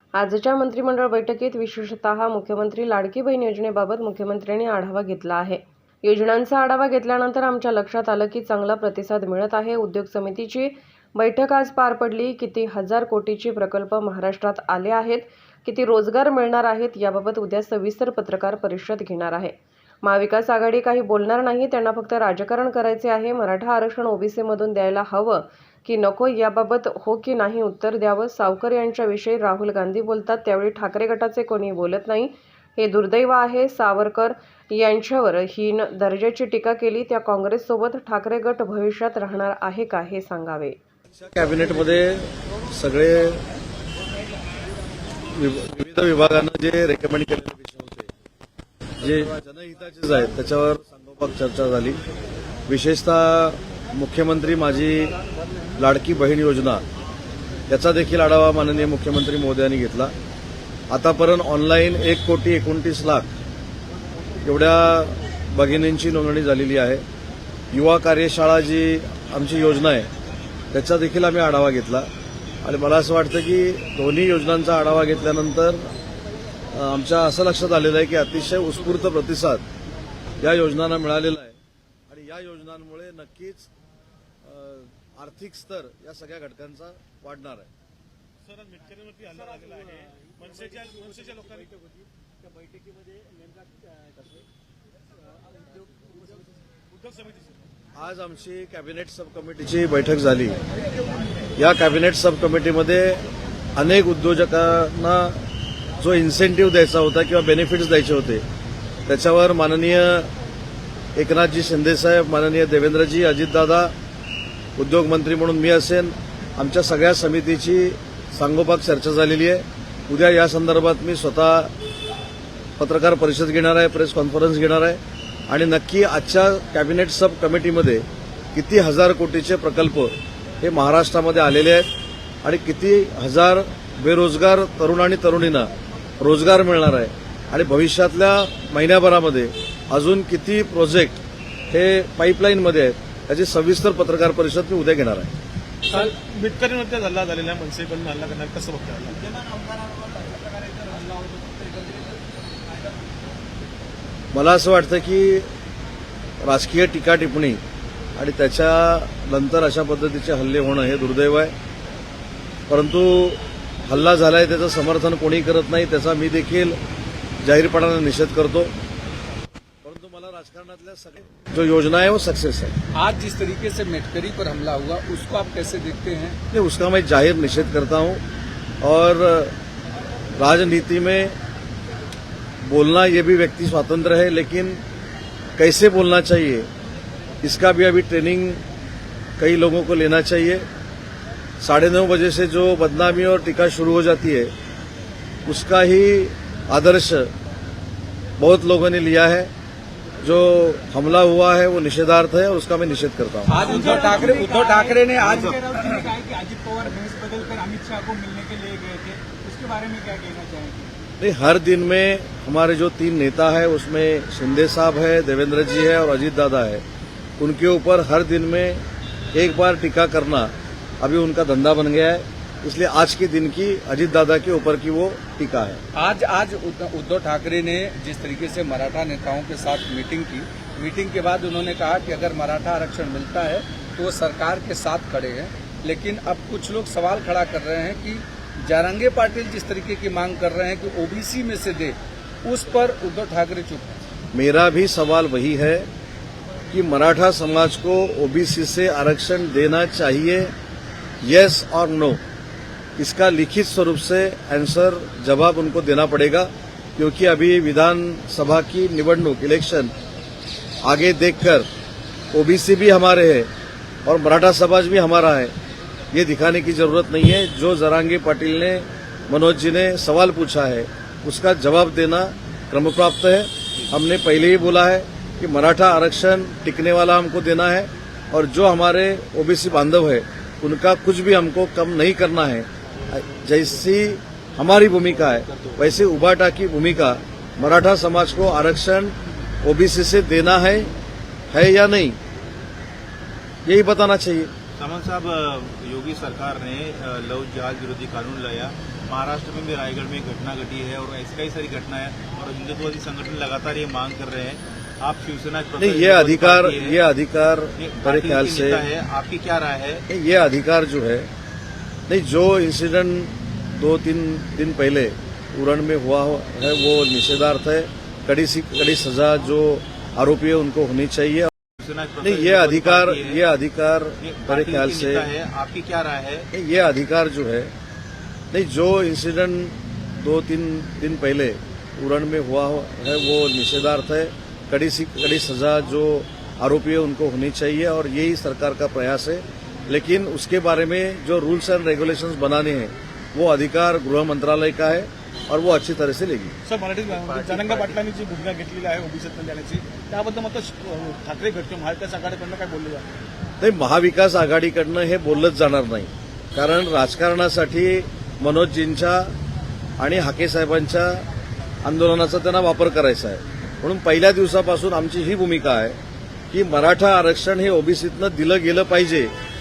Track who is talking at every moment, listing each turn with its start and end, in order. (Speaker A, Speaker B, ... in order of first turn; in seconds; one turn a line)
Speaker A: 0.1-40.8
Speaker B: 41.1-43.4
Speaker B: 45.3-48.1
Speaker B: 49.0-52.0
Speaker B: 52.7-55.1
Speaker B: 55.8-56.8
Speaker B: 57.7-60.1
Speaker B: 60.9-63.3
Speaker B: 64.4-67.0
Speaker B: 67.7-70.1
Speaker B: 70.7-72.1
Speaker B: 72.6-75.9
Speaker B: 76.7-79.6
Speaker B: 80.4-81.6
Speaker B: 82.1-83.7
Speaker B: 84.4-87.7
Speaker C: 88.5-91.7
Speaker D: 92.8-93.4
Speaker C: 96.9-97.6
Speaker B: 98.0-100.6
Speaker B: 101.6-103.2
Speaker B: 103.8-105.4
Speaker B: 106.0-108.4
Speaker B: 109.1-110.3
Speaker B: 111.2-113.9
Speaker B: 114.8-121.7
Speaker B: 122.8-131.9
Speaker B: 132.4-145.3
Speaker C: 145.9-149.2
Speaker D: 149.2-152.1
Speaker B: 154.3-155.5
Speaker B: 156.4-157.6
Speaker B: 158.2-161.5
Speaker B: 162.7-166.8
Speaker B: 167.4-168.7
Speaker B: 169.8-172.7
Speaker E: 172.9-176.4
Speaker B: 176.5-178.2
Speaker B: 178.8-179.5
Speaker B: 180.4-181.4
Speaker B: 182.6-184.8
Speaker B: 185.6-186.7
Speaker B: 187.4-188.6
Speaker B: 189.4-190.7
Speaker B: 191.6-194.5
Speaker B: 195.5-197.3
Speaker B: 198.4-199.5
Speaker B: 200.2-203.7
Speaker E: 203.5-206.1
Speaker D: 203.6-210.9
Speaker B: 211.2-216.8
Speaker B: 217.4-218.8
Speaker B: 219.3-225.8
Speaker E: 225.9-244.0
Speaker B: 244.3-245.9
Speaker B: 246.7-250.5
Speaker B: 251.2-252.2
Speaker B: 253.0-259.9
Speaker B: 260.8-261.7
Speaker B: 262.3-263.5
Speaker B: 264.1-265.5
Speaker B: 266.1-290.9
Speaker F: 285.2-286.0
Speaker B: 291.5-292.2
Speaker B: 293.7-294.5
Speaker F: 294.8-307.0
Speaker B: 305.8-308.9
Speaker F: 307.8-310.0
Speaker B: 310.1-311.3
Speaker B: 312.1-321.5
Speaker F: 321.8-323.4
Speaker B: 322.2-325.3
Speaker F: 324.2-326.5
Speaker B: 326.5-327.7
Speaker B: 328.5-346.5
Speaker C: 346.6-353.1
Speaker F: 347.2-348.0
Speaker B: 353.6-359.3
Speaker B: 360.0-361.2
Speaker B: 361.8-366.0
Speaker B: 366.5-369.3